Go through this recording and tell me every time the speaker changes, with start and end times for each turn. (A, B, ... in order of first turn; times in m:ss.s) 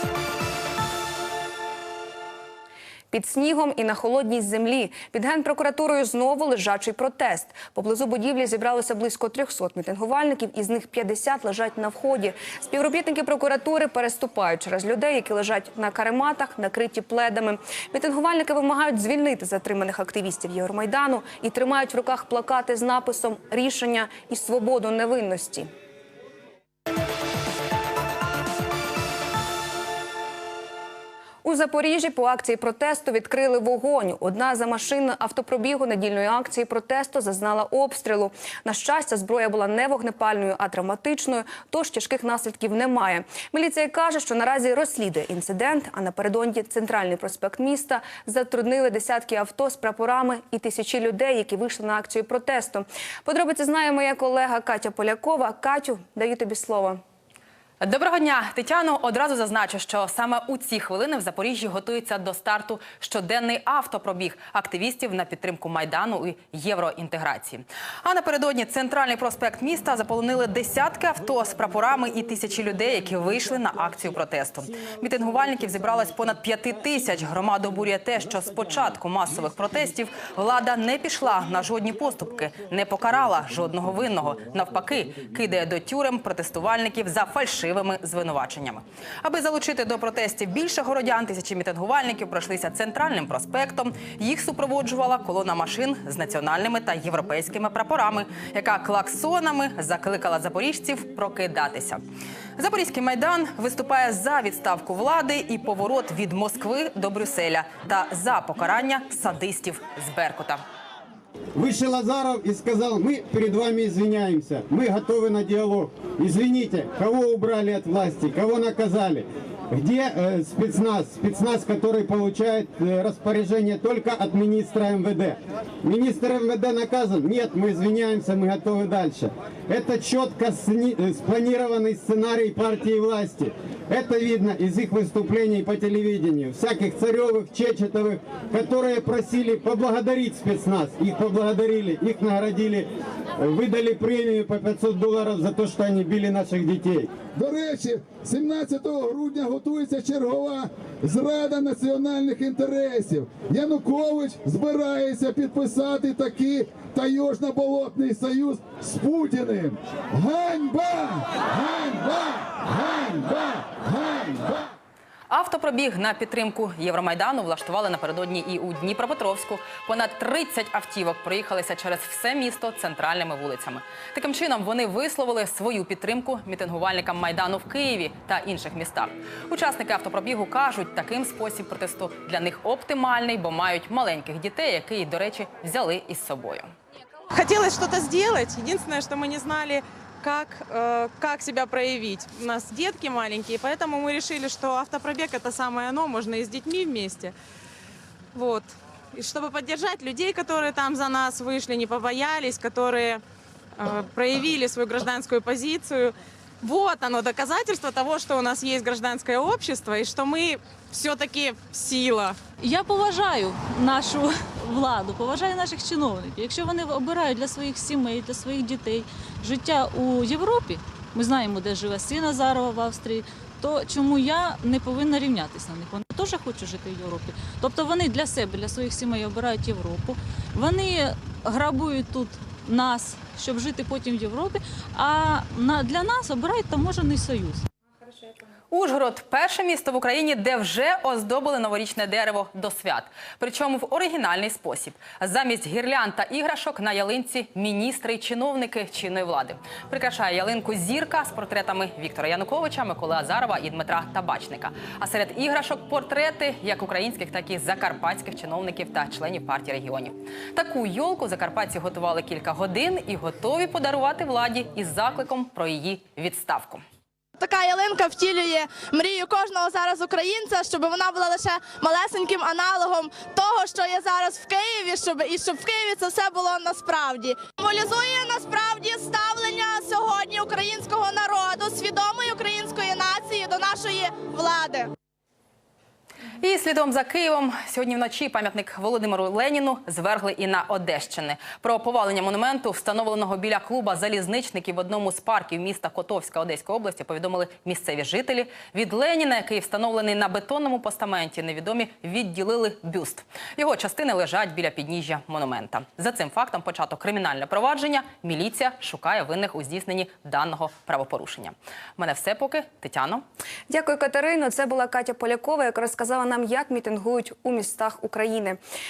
0:03.1-0:25.7 A
0:31.4-0:57.0 A
0:57.8-1:42.0 B
1:42.6-1:50.6 B
1:51.6-2:27.2 C
2:27.3-2:44.7 D
2:45.3-3:06.7 B
3:07.3-3:17.3 E
3:18.3-3:23.2 E
3:23.8-3:32.4 E
3:32.6-3:57.6 F
3:58.7-4:26.8 B
4:27.4-4:44.9 G
4:28.6-4:28.9 F
4:33.1-4:33.4 F
4:34.3-4:34.7 F
4:44.0-4:44.4 F
4:46.4-5:13.2 B
5:13.7-5:18.6 A